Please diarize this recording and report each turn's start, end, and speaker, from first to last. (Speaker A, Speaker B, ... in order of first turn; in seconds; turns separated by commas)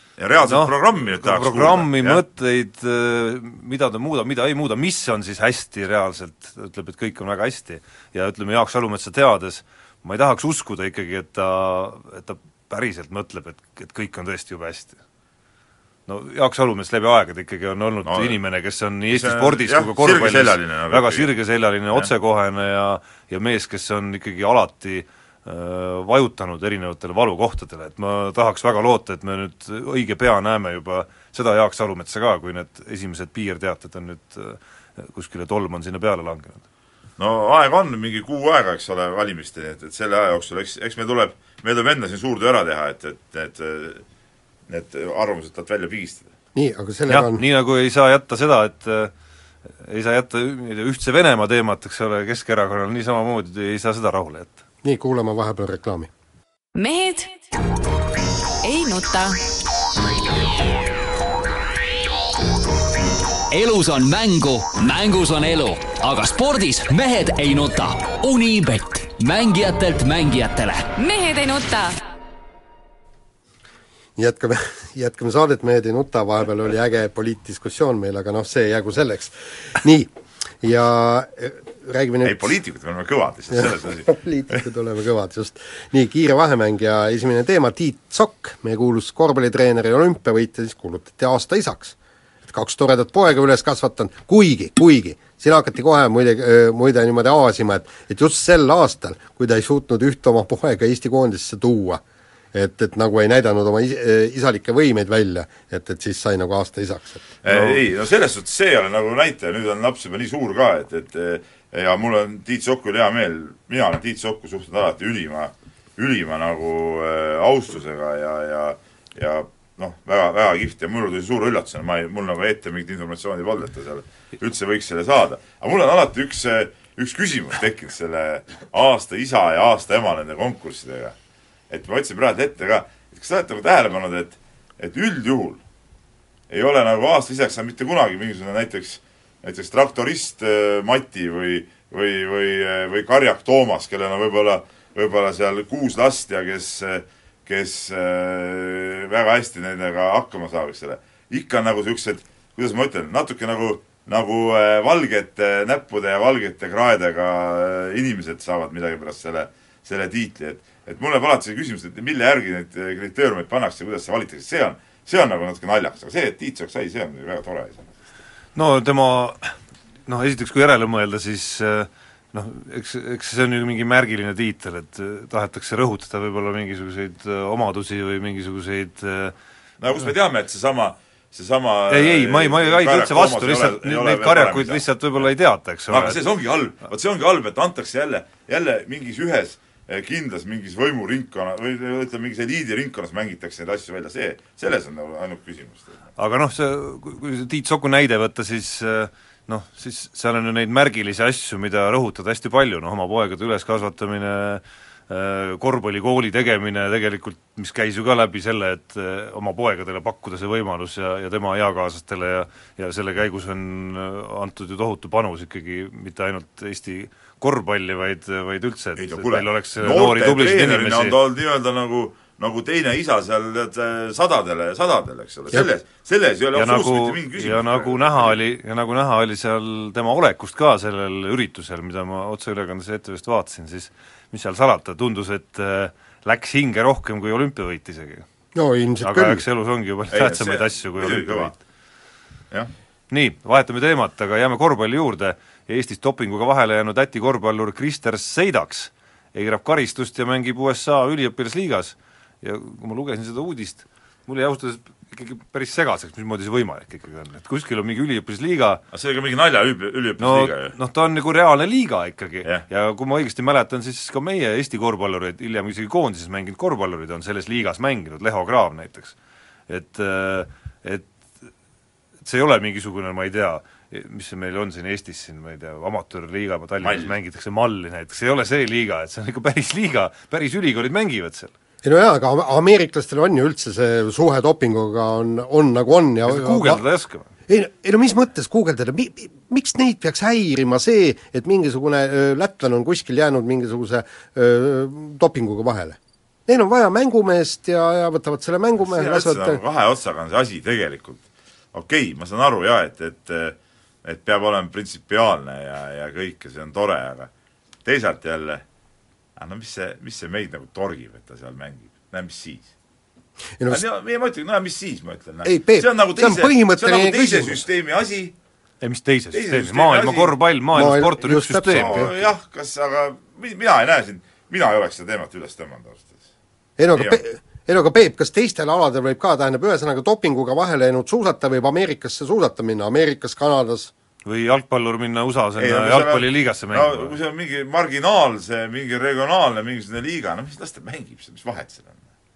Speaker A: 0.2-2.2, Speaker B: 0.4-15.0, Speaker B: 16.1-36.6, Speaker A: 18.1-18.4, Speaker A: 19.1-21.3, Speaker A: 37.2-44.0, Speaker A: 44.7-46.3, Speaker C: 46.5-47.4, Speaker B: 47.1-49.1, Speaker B: 49.8-54.6, Speaker C: 54.8-56.1, Speaker D: 56.8-57.4, Speaker D: 58.6-59.4, Speaker E: 63.5-70.9, Speaker D: 71.0-72.0, Speaker C: 74.2-80.1, Speaker C: 80.6-82.5, Speaker A: 82.2-84.6, Speaker C: 83.5-102.0, Speaker C: 102.5-107.2, Speaker A: 107.4-131.1, Speaker B: 107.5-107.8, Speaker A: 131.7-135.6, Speaker A: 136.5-167.9, Speaker B: 168.5-169.6, Speaker B: 170.1-179.3, Speaker A: 179.8-184.8, Speaker B: 181.9-186.2, Speaker A: 185.9-195.9, Speaker B: 196.2-221.2, Speaker A: 219.0-228.4, Speaker B: 226.5-238.2, Speaker C: 238.5-239.4, Speaker B: 239.0-241.6, Speaker A: 240.1-241.5, Speaker B: 243.1-258.8, Speaker A: 258.9-260.7, Speaker B: 260.2-269.1, Speaker B: 269.7-271.1, Speaker B: 272.2-281.5, Speaker A: 276.8-277.1, Speaker C: 281.8-286.8, Speaker B: 286.2-287.3, Speaker C: 287.5-299.6, Speaker A: 298.8-301.2, Speaker A: 301.7-307.3, Speaker A: 307.8-308.6, Speaker A: 309.4-312.7, Speaker A: 313.7-318.3, Speaker C: 315.4-317.6, Speaker B: 318.8-322.0, Speaker A: 319.3-320.3, Speaker C: 320.7-322.1, Speaker A: 321.7-326.2, Speaker C: 326.8-333.9, Speaker A: 326.9-327.2, Speaker B: 334.2-337.1, Speaker A: 335.6-341.9